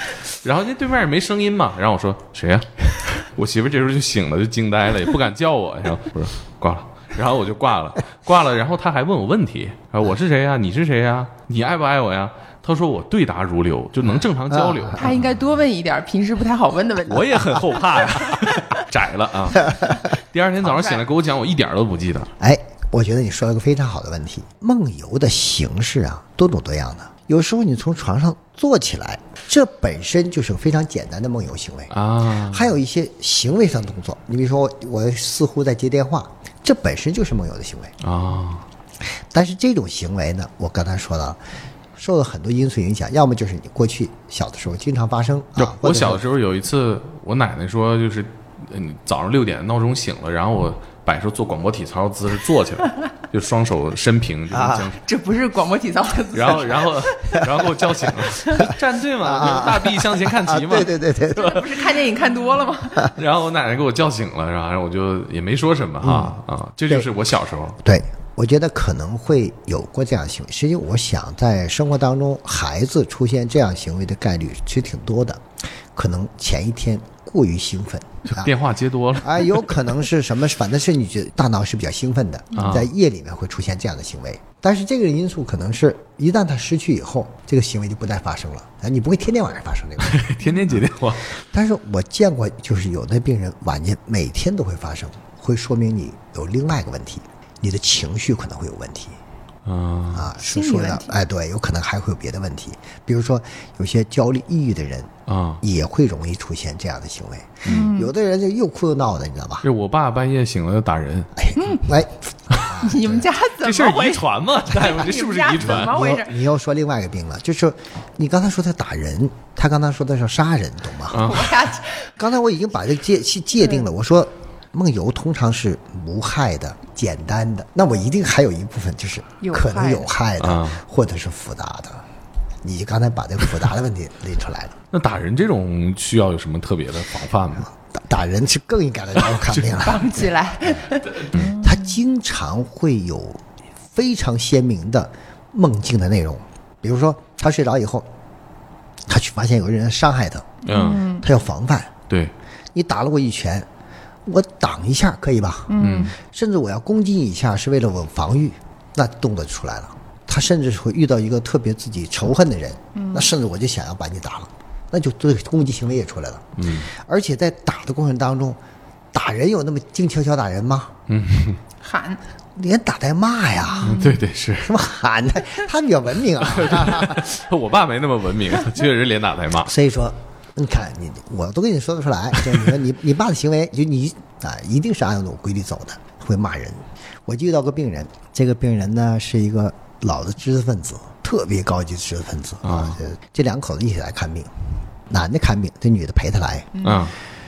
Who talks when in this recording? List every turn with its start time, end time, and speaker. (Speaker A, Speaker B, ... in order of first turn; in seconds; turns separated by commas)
Speaker A: 0.4-15.1, Speaker B: 14.5-15.0, Speaker C: 14.9-18.6, Speaker A: 17.1-22.3, Speaker C: 19.5-20.0, Speaker C: 20.6-21.0, Speaker B: 22.4-31.9, Speaker A: 31.9-32.7, Speaker B: 32.5-37.9, Speaker A: 38.0-38.6, Speaker B: 39.3-41.4, Speaker B: 42.0-46.2, Speaker A: 45.6-55.0, Speaker B: 54.5-54.9, Speaker C: 55.0-57.4, Speaker A: 56.3-61.6, Speaker C: 58.4-58.7, Speaker B: 58.6-61.6, Speaker C: 61.3-63.1, Speaker A: 63.1-67.8, Speaker B: 66.0-67.1, Speaker B: 67.8-75.4, Speaker B: 75.9-78.5, Speaker A: 78.3-79.7, Speaker B: 79.2-90.3, Speaker C: 82.5-82.8, Speaker A: 82.5-82.9, Speaker A: 90.0-91.3, Speaker C: 90.4-90.8, Speaker B: 91.5-99.2, Speaker A: 99.6-100.3, Speaker B: 100.1-105.1, Speaker C: 100.4-101.2, Speaker A: 105.3-105.6, Speaker B: 105.6-109.7, Speaker A: 107.6-107.9, Speaker C: 107.7-108.1, Speaker A: 109.6-111.3, Speaker B: 111.3-113.3, Speaker C: 111.5-111.9, Speaker C: 112.8-116.3, Speaker A: 113.6-116.0, Speaker B: 115.8-121.3, Speaker A: 121.1-121.6, Speaker C: 121.2-122.1, Speaker B: 122.2-132.0, Speaker C: 129.4-130.1, Speaker A: 130.4-130.8, Speaker B: 132.6-134.8, Speaker A: 134.9-137.7, Speaker B: 137.7-140.3, Speaker A: 139.3-139.7, Speaker C: 139.8-141.9, Speaker B: 141.5-148.1, Speaker B: 149.1-150.6, Speaker C: 150.6-151.3, Speaker A: 150.7-151.0, Speaker B: 151.2-151.9, Speaker B: 152.7-153.7, Speaker B: 154.2-168.6, Speaker C: 155.7-156.1, Speaker A: 155.8-156.1, Speaker C: 162.9-163.3, Speaker A: 166.6-166.9, Speaker B: 169.1-170.9, Speaker A: 171.1-171.6, Speaker C: 171.8-172.2, Speaker B: 172.6-174.0, Speaker C: 173.7-174.2, Speaker A: 173.8-174.7, Speaker B: 174.6-177.3, Speaker A: 176.4-179.7, Speaker B: 179.6-194.5, Speaker A: 192.6-193.0, Speaker B: 195.1-196.7, Speaker C: 196.7-197.1, Speaker A: 196.8-197.1